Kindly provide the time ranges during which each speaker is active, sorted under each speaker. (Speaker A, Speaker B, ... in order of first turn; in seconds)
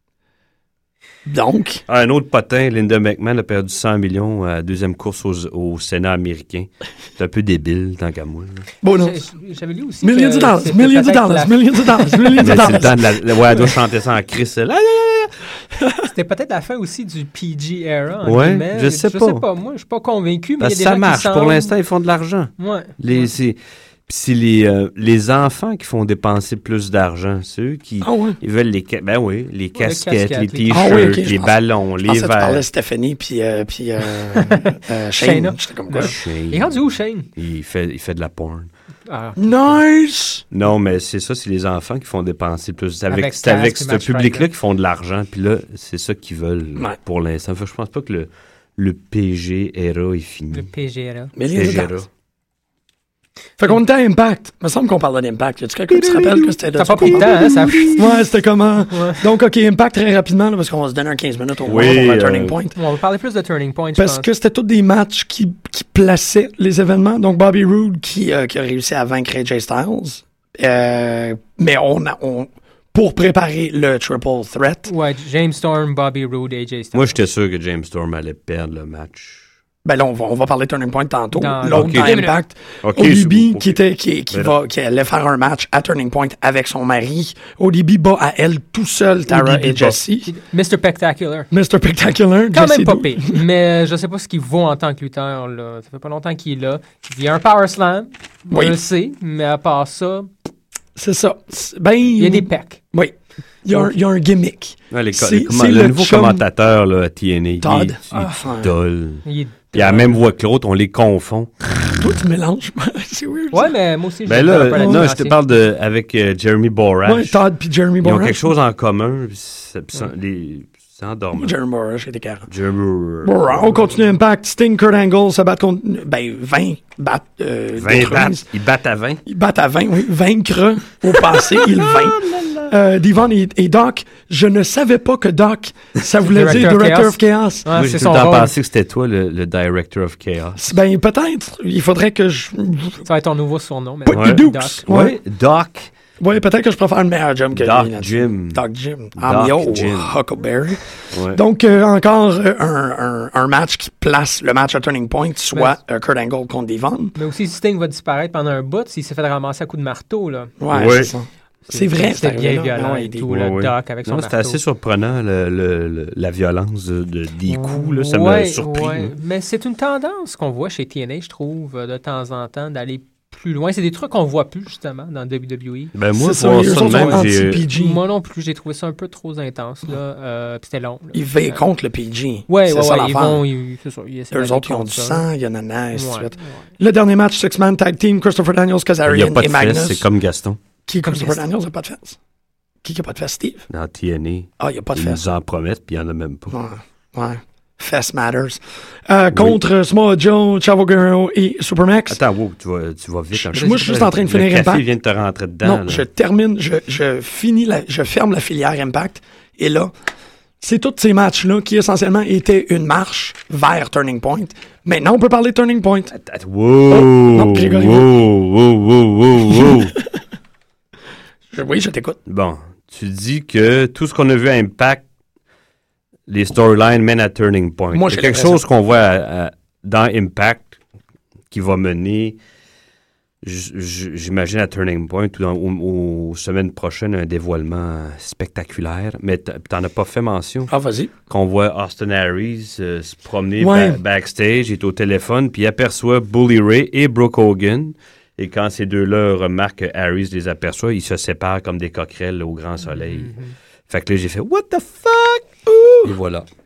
Speaker A: 1.3-1.8, 8.8-9.3, 10.0-13.2, 28.0-28.4, 30.7-36.1, 39.4-40.5, 51.4-52.0, 53.6-62.8, 64.0-74.9, 79.8-90.3, 91.5-93.4, 98.5-98.8, 101.0-106.5, 107.6-108.7, 112.0-113.8, 114.7-115.1, 117.0-118.5, 121.3-122.5, 123.2-128.4, 129.3-137.7, 140.6-143.1, 144.1-145.2, 146.2-157.1, 160.6-163.2, 176.2-178.0, 181.1-183.4, 184.3-190.1, 190.9-192.2, 192.8-193.7, 194.6-195.2, 196.5-202.2, 203.3-204.8, 205.6-209.9, 210.6-216.1, 216.9-218.1, 219.5-219.8, 221.5-222.2, 227.9-228.6, 240.7-241.1, 243.6-244.0
Speaker B: 1.9-8.7, 12.4-15.3, 18.2-19.4, 20.6-32.6, 36.0-36.8, 37.4-38.7, 40.5-50.7, 51.5-52.1, 55.9-58.0, 61.6-62.6, 76.9-79.5, 81.7-82.2, 82.8-83.8, 89.3-90.0, 104.9-111.7, 114.3-117.4, 118.0-121.5, 122.5-123.8, 127.8-129.2, 131.6-132.6, 137.7-140.6, 144.1-145.9, 147.5-148.6, 149.2-150.1, 151.1-151.4, 160.7-161.1, 163.3-169.1, 175.9-177.7, 189.1-190.6, 193.7-196.6, 199.3-199.6, 202.1-206.1, 216.1-219.9, 222.3-225.0, 226.3-230.8, 231.5-232.4, 233.4-240.7, 241.3-253.3, 253.9-256.4
Speaker C: 8.9-12.9, 16.0-21.7, 22.6-23.3, 29.8-31.2, 34.4-37.3, 39.1-39.8, 43.1-44.5, 50.5-51.3, 56.8-58.1, 58.9-59.3, 62.8-64.3, 74.9-77.2, 81.3-82.3, 90.2-91.5, 92.5-100.3, 102.2-102.8, 109.2-110.2, 113.5-115.4, 136.2-138.5, 143.1-144.8, 157.2-160.5, 161.7-164.6, 167.5-175.9, 176.7-181.6, 182.5-185.3, 185.9-186.7, 191.0-191.4, 252.8-253.6